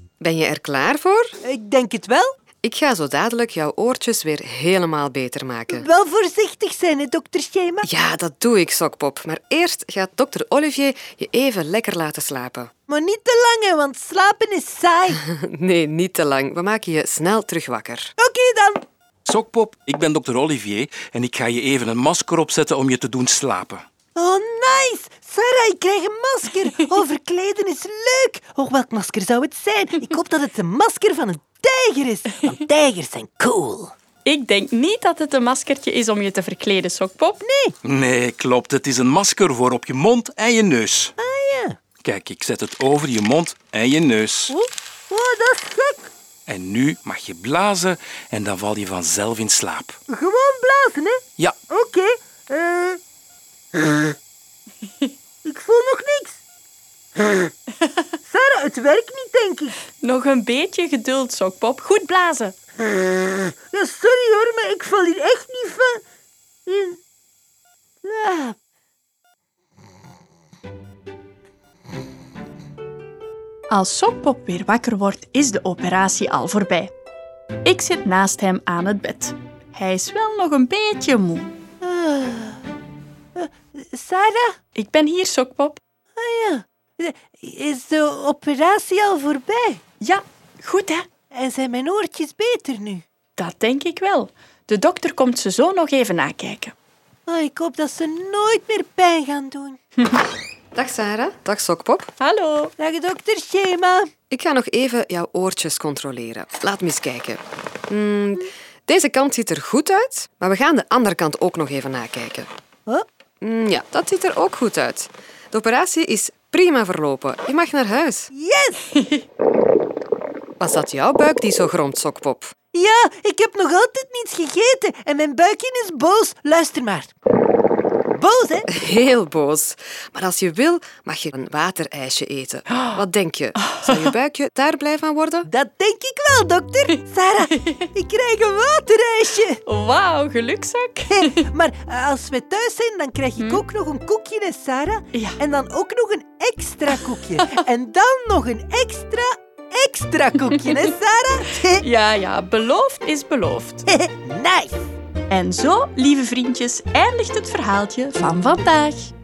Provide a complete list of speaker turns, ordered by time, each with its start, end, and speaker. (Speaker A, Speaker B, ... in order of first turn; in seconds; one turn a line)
Speaker A: 0.2-1.3
Speaker B: 1.4-2.3
Speaker A: 2.6-5.8
Speaker B: 5.7-7.9
Speaker A: 7.8-12.7
Speaker B: 12.9-15.2
Speaker A: 15.2-18.1
Speaker B: 18.2-18.8
Speaker C: 19.2-23.8
Speaker B: 24.1-33.9
Speaker D: 34.2-37.4
Speaker B: 37.4-37.7
Speaker C: 37.8-41.0
Speaker B: 41.2-41.8
Speaker C: 42.0-44.5
Speaker B: 44.5-46.1
Speaker C: 46.5-49.9
Speaker B: 50.1-51.2
Speaker B: 51.7-53.0
Speaker B: 55.4-56.4
Speaker B: 58.3-59.8
Speaker D: 60.0-62.5
Speaker B: 63.3-66.0
Speaker B: 66.7-67.0
Speaker B: 68.0-68.5
Speaker D: 73.7-76.9
Speaker D: 77.6-81.5
Speaker B: 81.8-82.6
Speaker B: 83.3-84.5
Speaker D: 84.7-85.8
Speaker B: 86.2-89.8
Speaker D: 90.0-91.0
Speaker B: 91.3-93.0
Speaker D: 93.4-96.7
Speaker B: 97.3-99.8
Speaker A: 100.7-102.1
Speaker D: 102.2-102.7
Speaker B: 102.8-104.1
Speaker A: 104.3-112.5
Speaker A: 113.4-118.3
Speaker B: 118.3-118.8
Speaker A: 120.6-122.5
Speaker B: 122.7-127.1
Speaker B: 128.2-128.7
Speaker A: 128.7-135.5
Speaker D: 133.7-134.0
Speaker B: 135.4-139.6
Speaker D: 139.7-141.4
Speaker B: 141.1-151.8
Speaker D: 145.1-145.4
Speaker D: 151.7-153.9
Speaker B: 153.9-154.8
Speaker D: 155.3-159.1